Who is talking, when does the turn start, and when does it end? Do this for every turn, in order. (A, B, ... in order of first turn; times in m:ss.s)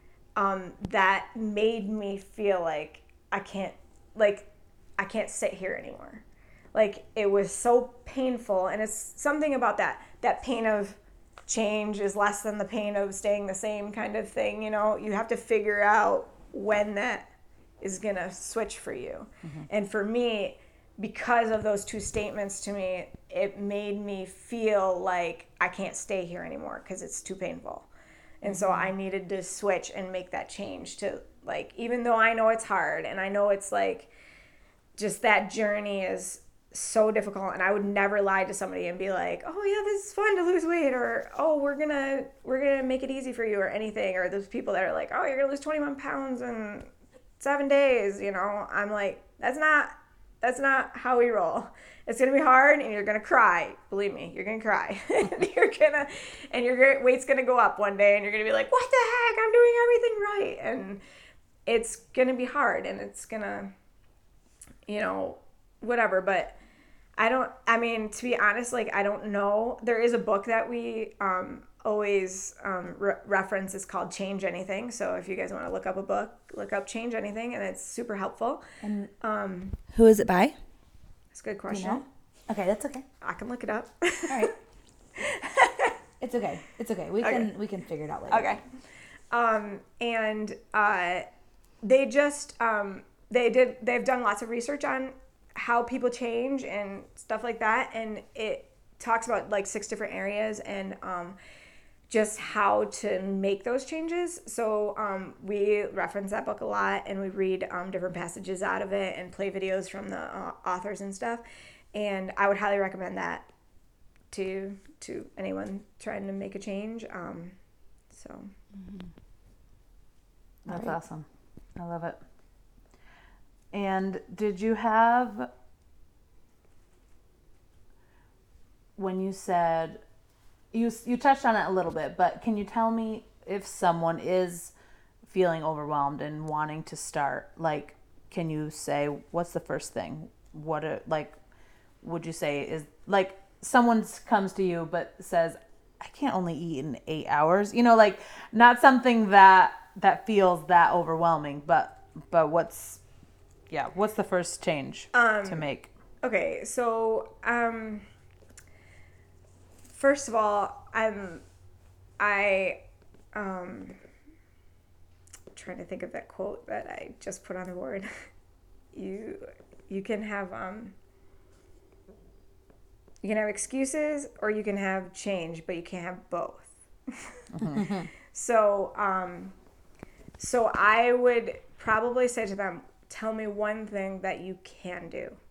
0:00.4-0:17.3 A
0:17.8-0:27.9 A
0:28.4-0:34.1 A
0:35.0-1:01.0 A
1:01.6-1:03.7 A
1:04.9-1:06.6 A
1:07.2-1:18.6 A
1:18.8-1:19.1 B
1:19.2-1:19.8 A
1:19.9-1:20.6 B
1:21.3-1:22.0 A
1:21.7-1:22.0 B
1:22.5-1:23.0 C
1:23.2-1:24.5 A
1:25.2-1:25.9 A
1:26.2-1:28.5 B
1:27.2-1:27.5 A
1:28.3-1:28.6 A
1:29.3-1:31.2 A
1:31.8-1:41.4 A
1:42.1-1:51.4 A
1:51.9-1:53.5 A
1:54.3-1:57.6 A
1:58.1-1:58.5 A
2:00.6-2:01.2 C
2:00.7-2:01.0 B
2:01.8-2:02.2 C
2:03.7-2:05.5 C
2:09.0-2:10.0 C
2:10.7-2:14.7 C
2:15.2-2:21.3 C
2:22.0-2:33.0 C
2:33.7-2:35.9 C
2:35.1-2:35.7 A
2:36.2-2:38.0 A
2:39.9-2:41.4 A
2:42.2-2:42.8 A
2:43.3-2:44.0 A
2:45.5-2:48.3 A
2:48.9-2:50.9 A
2:53.2-2:56.7 A
2:57.5-2:57.9 C
2:58.3-2:59.5 A
3:00.4-3:05.4 A